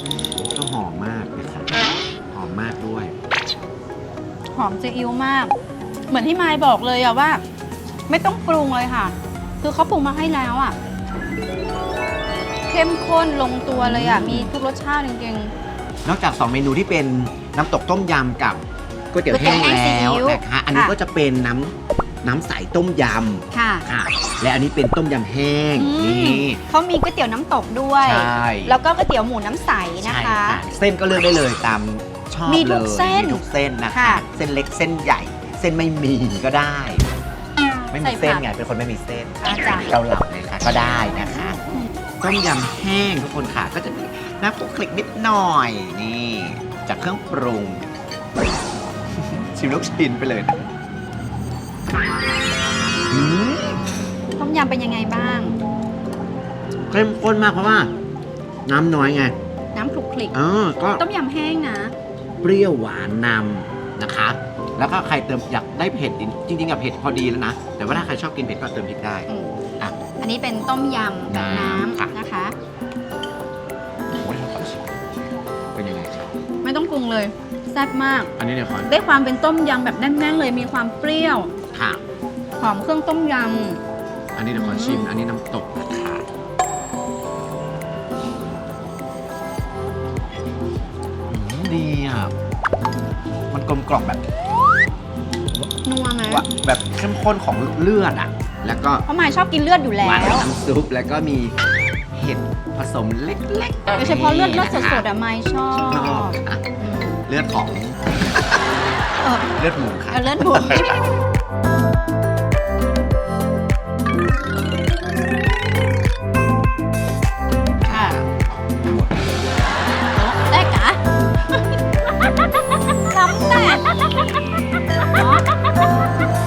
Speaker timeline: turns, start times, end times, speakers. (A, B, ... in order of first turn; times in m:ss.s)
0:00.4-0:01.7 A
0:02.3-0:03.1 A
0:04.5-0:05.5 B
0:06.1-0:07.4 B
0:08.1-0:10.8 B
0:12.7-0:15.5 B
0:13.7-0:14.5 A
0:16.0-0:18.6 A
0:19.1-0:26.6 A
0:19.3-0:20.9 B
0:23.5-0:23.8 B
0:25.8-0:30.6 B
0:28.0-0:28.8 A
0:30.0-0:37.0 A
0:32.4-0:33.4 B
0:33.9-0:34.2 B
0:37.9-0:41.6 A
0:38.0-0:38.4 B
0:39.4-0:39.9 B
0:41.2-0:41.9 B
0:42.2-0:47.8 A
0:49.2-0:50.7 A
0:53.1-0:53.9 A
0:54.4-0:55.5 B
0:56.9-0:57.9 A
0:58.7-0:59.3 A
0:59.8-1:00.4 B
1:00.3-1:01.0 A
1:01.0-1:01.9 B
1:02.4-1:09.3 A
1:09.3-1:09.5 B
1:10.2-1:12.5 B
1:11.3-1:12.1 A
1:14.1-1:14.9 A
1:15.8-1:16.3 A
1:16.6-1:18.3 B
1:18.4-1:18.9 A
1:18.8-1:21.5 B
1:21.7-1:22.0 A
1:22.6-1:23.8 B
1:24.4-1:26.3 A
1:24.5-1:25.1 B
1:31.3-1:32.3 A
1:33.5-1:34.2 A
1:35.8-1:36.4 B
1:36.2-1:39.0 A
1:39.1-1:40.5 B
1:40.0-1:41.5 A
1:42.1-1:45.1 A
1:44.0-1:47.2 B
1:45.7-1:46.6 A
1:47.3-1:48.6 A
1:49.2-1:49.5 B
1:49.5-1:51.0 A
1:50.1-1:51.0 B
1:57.8-1:59.8 A
1:57.9-1:58.2 B
2:00.1-2:01.0 B
2:03.1-2:04.2 B
2:05.0-2:05.4 B